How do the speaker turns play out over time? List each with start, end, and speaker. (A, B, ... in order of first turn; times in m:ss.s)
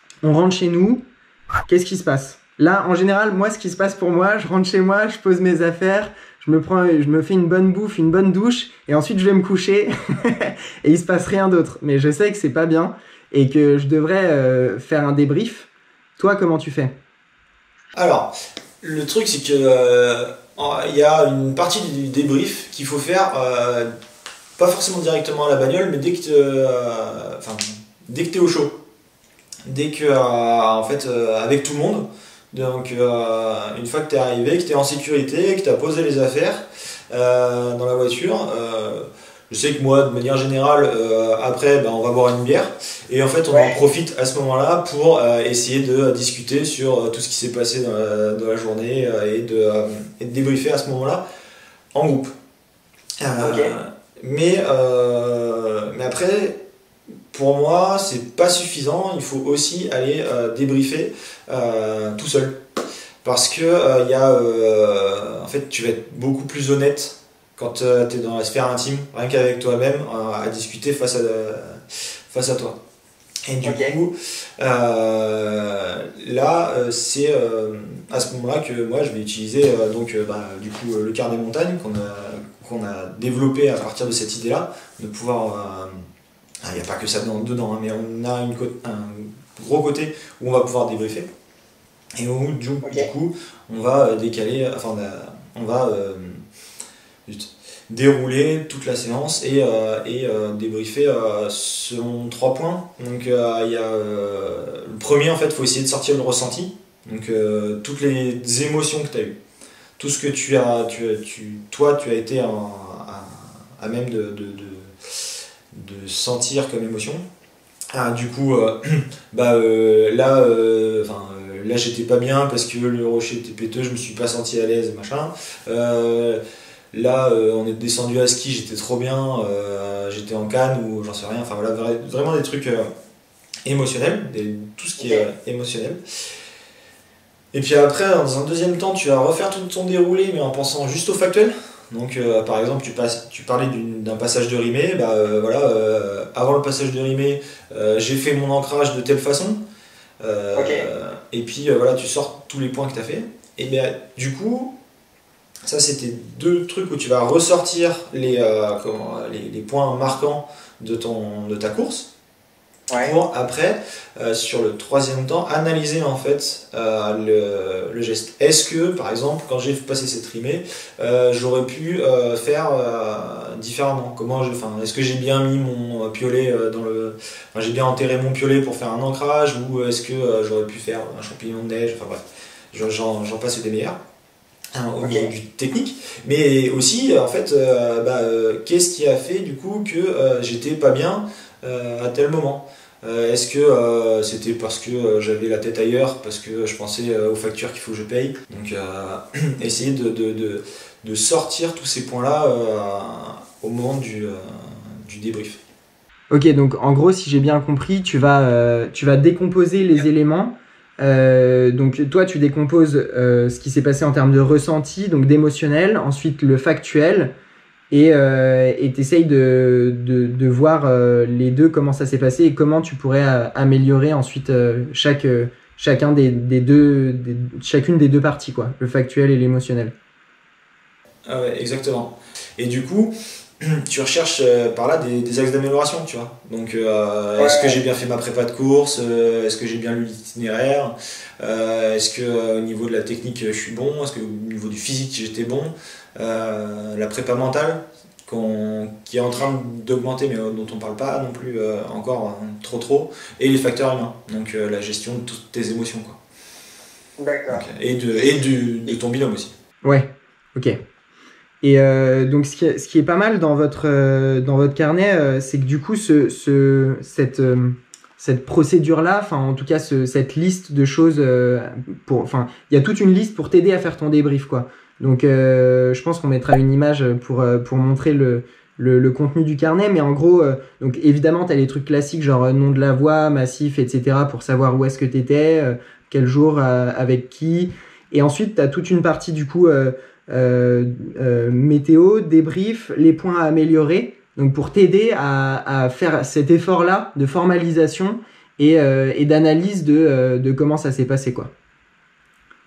0:00.2-0:01.0 A
0:01.7-0:16.9 A
0:18.0-0:23.9 B
0:24.6-0:28.8 B
0:29.7-0:51.2 B
0:43.5-0:43.8 C
0:51.9-0:52.3 B
0:53.2-0:56.6 B
0:53.4-0:53.7 C
0:57.3-1:02.6 B
1:03.2-1:12.8 B
1:13.5-1:26.0 B
1:13.6-1:14.0 C
1:26.6-1:31.3 B
1:32.2-1:36.4 B
1:37.3-1:49.4 B
1:50.0-1:57.2 B
1:57.9-2:06.4 B
2:06.9-2:12.9 B
2:13.6-2:16.0 B
2:17.5-2:29.6 B
2:30.2-2:34.8 B
2:30.6-2:30.8 C
2:35.6-2:42.1 B
2:42.9-3:02.2 B
3:02.7-3:04.0 B
3:04.8-3:25.6 B
3:05.0-3:05.3 C
3:26.3-3:37.3 A
3:37.9-3:49.9 A
3:51.3-4:16.2 B
3:57.4-3:57.8 C
4:17.2-4:17.6 C
4:17.5-4:19.5 B
4:19.8-4:20.8 A
4:21.6-5:01.5 A